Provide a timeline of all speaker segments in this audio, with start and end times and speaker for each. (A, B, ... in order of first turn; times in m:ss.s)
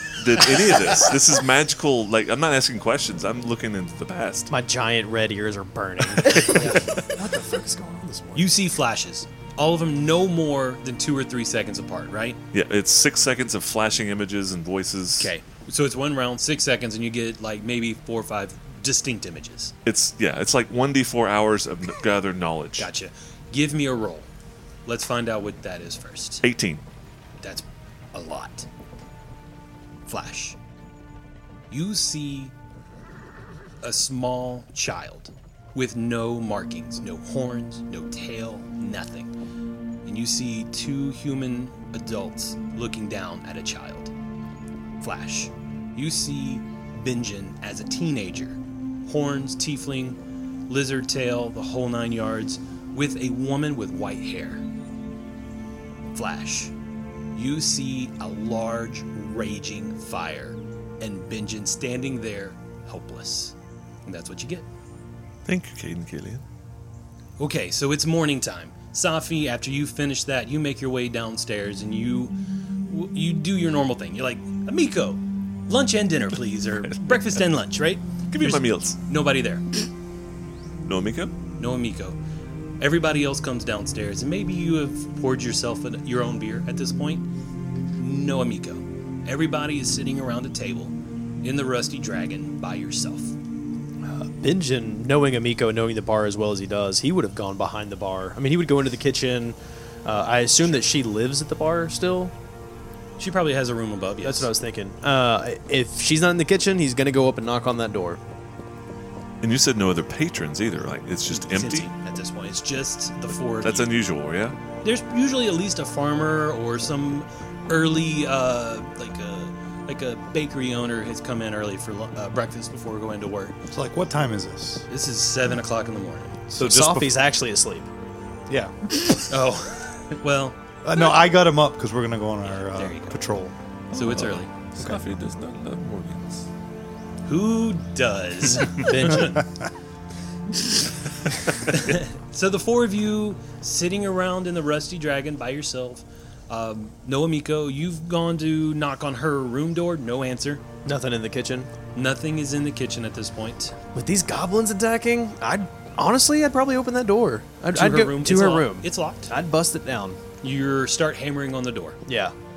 0:00.2-0:04.5 A
0:00.5-0:00.9 B
0:04.5-0:08.5 C
0:06.2-0:06.8 A
0:06.4-0:06.8 B
0:08.4-0:12.4 B
0:12.5-0:15.3 A
0:15.2-0:19.7 B
0:19.8-0:22.9 A
0:22.8-0:24.3 B
0:24.9-0:26.4 B
0:26.4-0:26.8 A
0:27.4-0:28.7 B
0:30.1-0:30.6 B
0:31.7-0:32.5 B
0:33.8-0:39.3 B
0:40.0-0:44.1 B
0:45.0-0:50.2 B
0:50.7-0:54.6 B
0:56.1-0:56.7 B
0:57.4-1:03.5 B
1:04.1-1:04.7 B
1:05.4-1:06.4 A
1:07.4-1:12.4 B
1:12.9-1:19.7 B
1:18.3-1:19.0 A
1:20.8-1:21.3 A
1:21.6-1:22.2 B
1:22.8-1:27.2 B
1:28.0-1:33.3 B
1:34.0-1:42.3 C
1:43.2-1:44.5 B
1:44.2-1:48.2 C
1:49.4-1:51.9 A
1:51.3-1:53.9 B
1:53.6-1:54.6 A
1:54.8-2:03.6 B
2:03.7-2:04.8 D
2:04.9-2:06.4 B
2:06.5-2:07.2 D
2:06.5-2:07.9 C
2:08.5-2:08.7 D
2:09.3-2:10.6 B
2:10.8-2:13.5 D
2:12.4-2:13.2 B
2:13.9-2:14.5 B
2:13.9-2:16.5 A
2:17.3-2:19.5 B
2:18.7-2:19.4 C
2:21.6-2:30.6 B
2:30.8-2:31.7 C
2:32.0-2:33.8 B
2:34.0-2:40.2 C
2:37.7-2:39.3 B
2:40.4-2:42.0 B
2:42.1-2:42.3 C